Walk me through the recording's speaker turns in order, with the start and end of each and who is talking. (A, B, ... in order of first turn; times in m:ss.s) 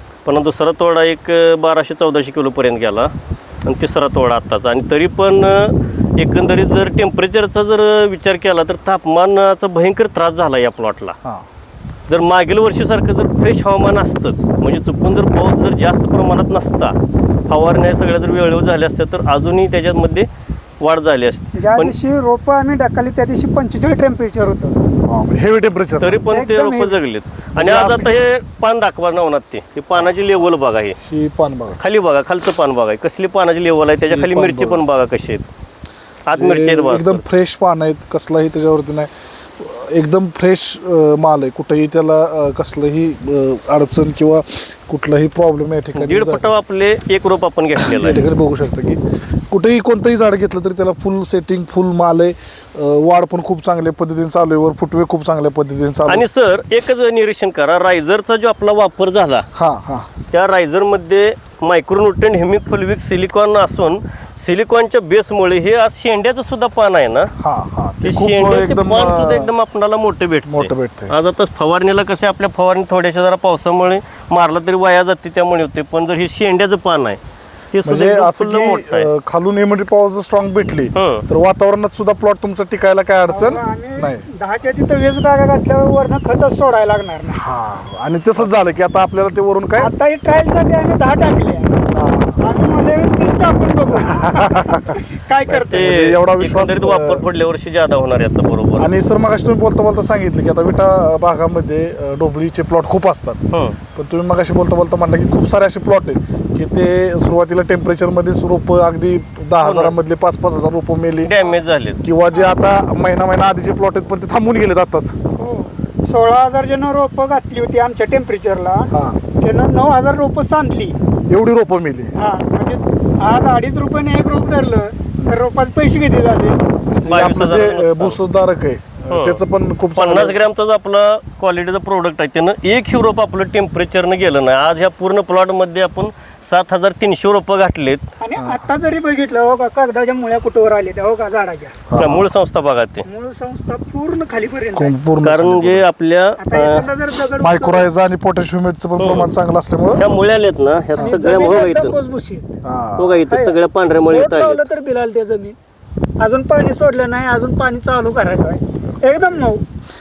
0:00.2-0:03.1 A
0:03.6-0:11.1 A
0:12.1-0:17.0 A
0:17.5-0:20.3 A
0:20.8-0:21.9 A
0:21.5-0:24.8 B
0:25.0-0:26.2 C
0:26.0-0:31.0 A
0:26.3-0:26.9 B
0:27.5-0:28.1 C
0:31.0-0:31.8 C
0:31.8-0:35.5 A
0:34.0-0:34.8 C
0:36.3-0:37.2 A
0:36.3-0:46.5 C
0:46.0-0:48.2 A
0:47.8-0:56.2 C
0:56.1-0:59.4 A
0:59.5-1:00.1 C
1:00.3-1:07.3 A
1:07.4-1:09.5 C
1:08.0-1:17.2 A
1:10.4-1:11.1 C
1:17.7-1:19.1 A
1:17.8-1:24.2 C
1:21.0-1:21.2 A
1:23.3-1:27.4 B
1:27.3-1:29.9 C
1:29.8-1:31.8 B
1:31.9-1:32.4 C
1:32.4-1:35.9 B
1:34.0-1:35.0 C
1:35.5-1:37.2 C
1:35.5-1:38.9 A
1:38.8-1:43.4 C
1:43.5-1:43.8 A
1:43.9-1:51.3 C
1:49.6-1:50.0 A
1:51.2-1:52.0 A
1:52.0-1:55.2 C
1:55.4-2:01.0 B
1:58.9-1:59.2 C
2:01.3-2:02.1 C
2:02.2-2:06.6 B
2:06.5-2:10.4 C
2:07.1-2:08.2 A
2:09.1-2:09.4 A
2:10.0-2:18.0 A
2:18.2-2:21.8 B
2:18.4-2:18.7 C
2:21.9-2:22.3 C
2:22.0-2:23.0 A
2:23.0-2:24.9 B
2:24.7-2:25.8 C
2:25.2-2:26.8 A
2:26.4-2:27.9 B
2:27.4-2:30.1 C
2:29.0-2:29.3 A
2:29.9-2:32.0 A
2:31.0-2:31.6 C
2:31.0-2:32.6 B
2:32.6-2:33.2 C
2:33.0-2:34.7 A
2:33.3-2:33.6 B
2:34.1-2:35.6 B
2:36.2-2:39.6 B